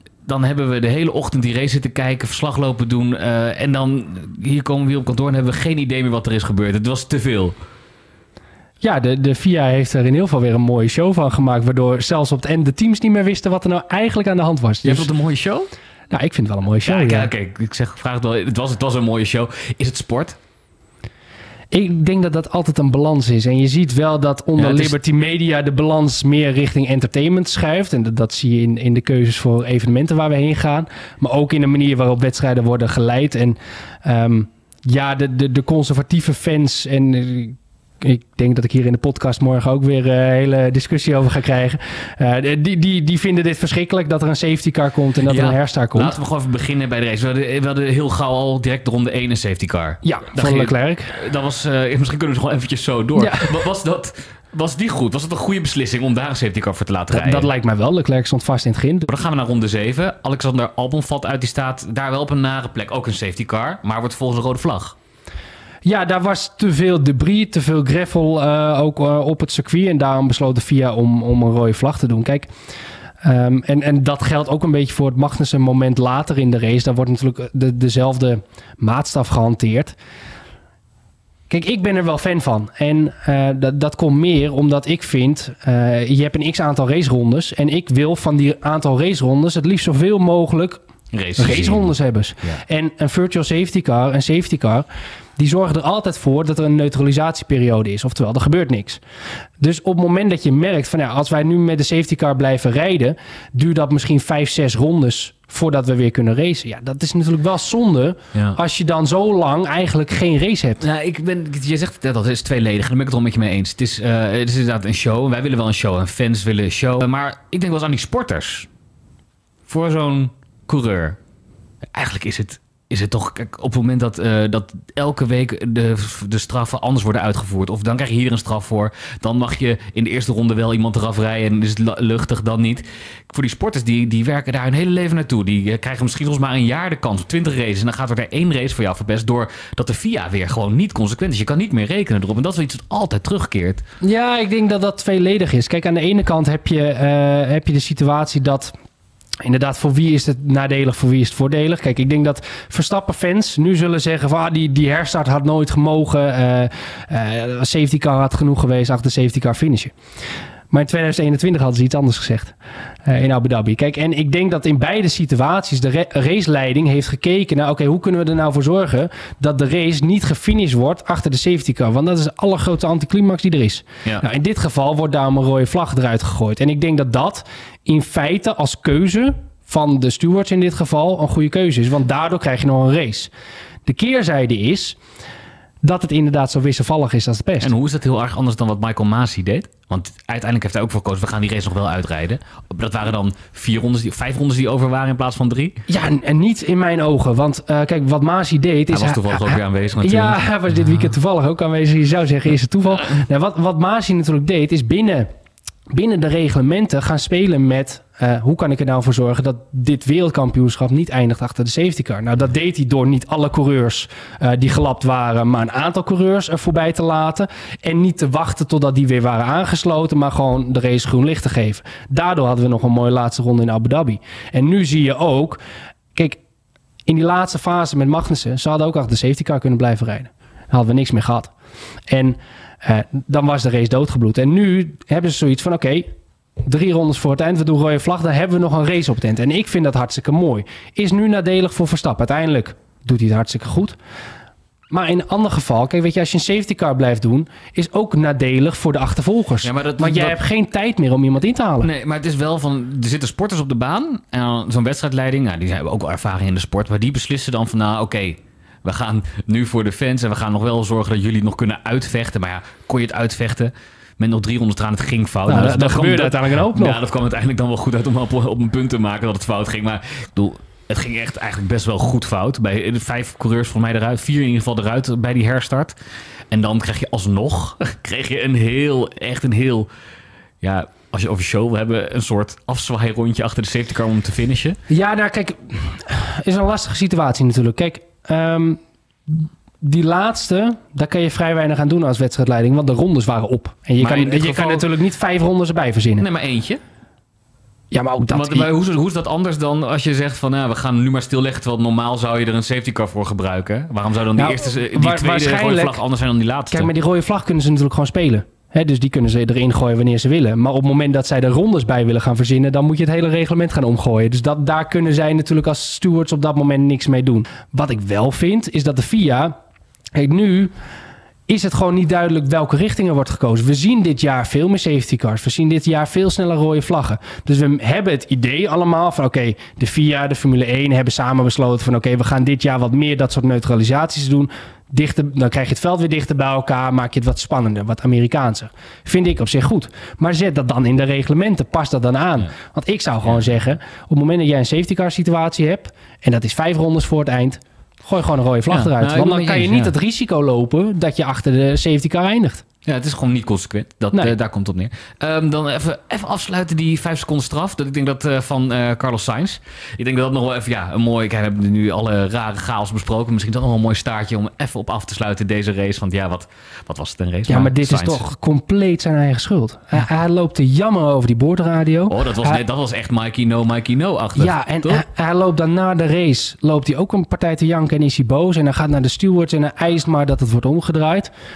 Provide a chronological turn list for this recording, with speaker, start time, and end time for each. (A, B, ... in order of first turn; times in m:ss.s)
0:00.2-0:07.6 A
0:08.8-0:15.1 B
0:14.8-0:15.7 A
0:16.1-0:17.3 B
0:16.8-0:20.4 A
0:21.7-0:46.2 B
0:24.6-0:25.0 A
0:45.2-0:57.5 A
0:50.0-0:51.2 B
0:53.2-0:53.5 B
0:57.1-0:59.1 B
0:59.1-1:05.0 A
1:05.8-1:12.5 B
1:13.2-1:20.0 B
1:21.5-1:30.8 B
1:31.1-1:31.9 A
1:31.4-1:34.9 B
1:35.4-1:39.0 B
1:39.6-1:50.8 B
1:50.8-1:58.7 A
1:59.7-2:01.2 A
2:01.9-2:23.8 A
2:24.0-2:28.7 B
2:29.4-2:39.9 B
2:40.7-3:03.3 B
3:03.8-3:05.0 B
3:05.8-3:07.7 B
3:07.6-3:15.8 A
3:15.9-3:25.3 B
3:18.9-3:20.4 A
3:25.9-3:45.6 B
3:47.0-3:51.5 B
3:52.1-3:56.1 B
3:56.6-4:04.0 B
4:04.9-4:11.9 B
4:09.6-4:10.4 A
4:11.8-4:36.0 A
4:25.5-4:27.0 B
4:36.5-4:39.9 A
4:40.6-4:44.8 A
4:44.9-4:56.2 B
4:54.0-4:54.9 A
4:56.2-4:56.8 A
4:57.9-4:58.7 B
4:58.2-5:06.9 A
5:04.4-5:06.0 B
5:06.7-5:19.5 B
5:20.2-5:20.7 B
5:21.5-5:52.6 B
5:48.7-5:49.9 A
5:52.9-6:08.2 A
6:07.5-6:12.6 B
6:12.1-6:15.0 A
6:14.4-6:21.3 B